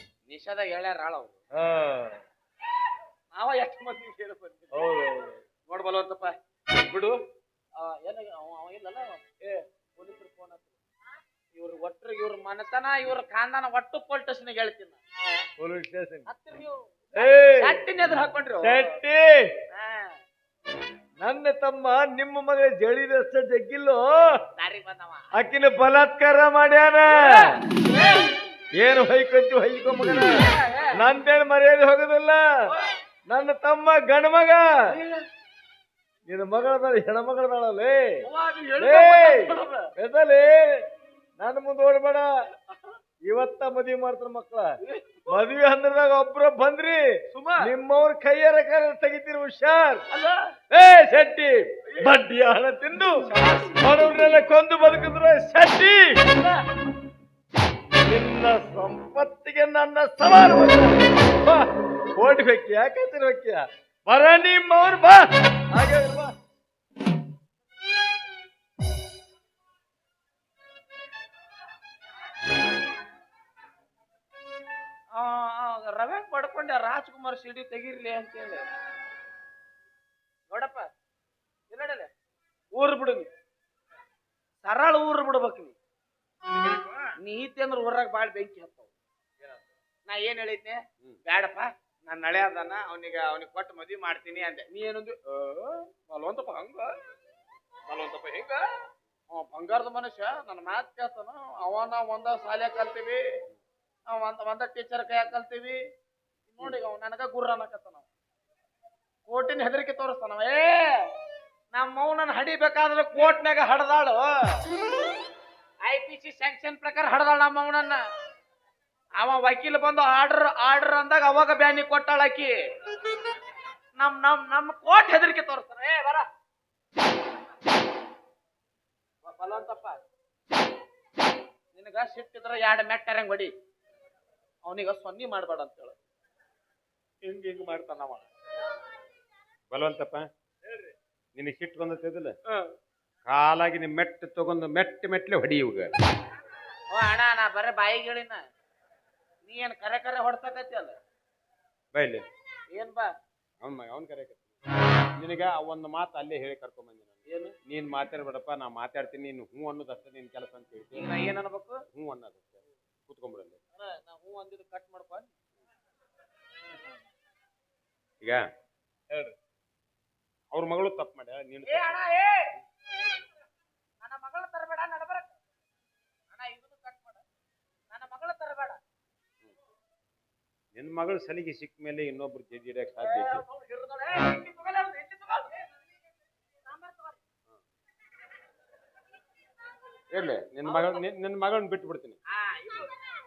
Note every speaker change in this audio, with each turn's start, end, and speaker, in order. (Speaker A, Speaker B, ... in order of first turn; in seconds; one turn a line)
Speaker A: 0.2-1.4
Speaker B: 1.6-2.2
Speaker A: 3.3-4.9
Speaker B: 4.7-5.4
Speaker A: 5.7-7.1
Speaker A: 7.8-10.8
Speaker A: 11.5-15.0
Speaker B: 15.6-16.2
Speaker A: 16.2-18.9
Speaker B: 17.1-17.8
Speaker B: 18.6-19.4
Speaker A: 19.7-20.1
Speaker B: 21.2-24.0
Speaker A: 24.6-25.2
Speaker B: 25.4-27.5
Speaker A: 27.1-28.3
Speaker B: 28.8-30.4
Speaker A: 30.4-30.9
Speaker B: 30.9-32.4
Speaker B: 33.3-34.7
Speaker A: 34.9-35.2
Speaker B: 36.3-38.1
Speaker A: 38.2-39.9
Speaker B: 38.8-40.9
Speaker B: 41.4-42.3
Speaker B: 43.2-44.7
Speaker A: 44.8-45.3
Speaker B: 45.3-47.0
Speaker A: 47.3-47.7
Speaker B: 47.6-50.0
Speaker A: 50.1-50.4
Speaker B: 50.7-53.2
Speaker A: 51.9-52.1
Speaker A: 53.2-54.1
Speaker B: 53.8-56.2
Speaker A: 56.2-56.6
Speaker B: 58.0-66.3
Speaker A: 75.1-78.6
Speaker A: 80.5-80.9
Speaker A: 81.7-82.1
Speaker A: 82.7-83.3
Speaker A: 84.6-85.8
Speaker A: 87.2-88.9
Speaker A: 90.0-96.9
Speaker A: 97.9-98.6
Speaker A: 99.3-103.2
Speaker A: 104.1-105.8
Speaker A: 106.5-108.0
Speaker A: 109.2-110.9
Speaker A: 111.7-114.3
Speaker A: 115.8-118.0
Speaker A: 119.2-122.5
Speaker A: 124.0-126.3
Speaker A: 129.2-130.0
Speaker A: 131.7-133.5
Speaker A: 134.6-135.9
Speaker A: 137.3-138.2
Speaker C: 139.7-140.3
Speaker C: 141.3-142.3
Speaker C: 143.2-145.9
Speaker A: 146.9-148.4
Speaker A: 149.4-151.0
Speaker C: 151.9-152.2
Speaker A: 152.7-153.1
Speaker C: 153.6-154.4
Speaker C: 155.2-161.1
Speaker A: 157.2-157.5
Speaker A: 160.9-161.8
Speaker C: 161.9-162.5
Speaker C: 163.1-163.6
Speaker A: 163.8-165.3
Speaker C: 170.5-171.9
Speaker A: 171.6-172.5
Speaker A: 174.0-175.4
Speaker A: 176.3-177.2
Speaker A: 177.9-178.8
Speaker C: 180.7-183.4
Speaker A: 182.9-185.7
Speaker A: 186.7-187.2
Speaker C: 190.1-192.2
Speaker A: 190.6-191.0
Speaker A: 192.3-192.9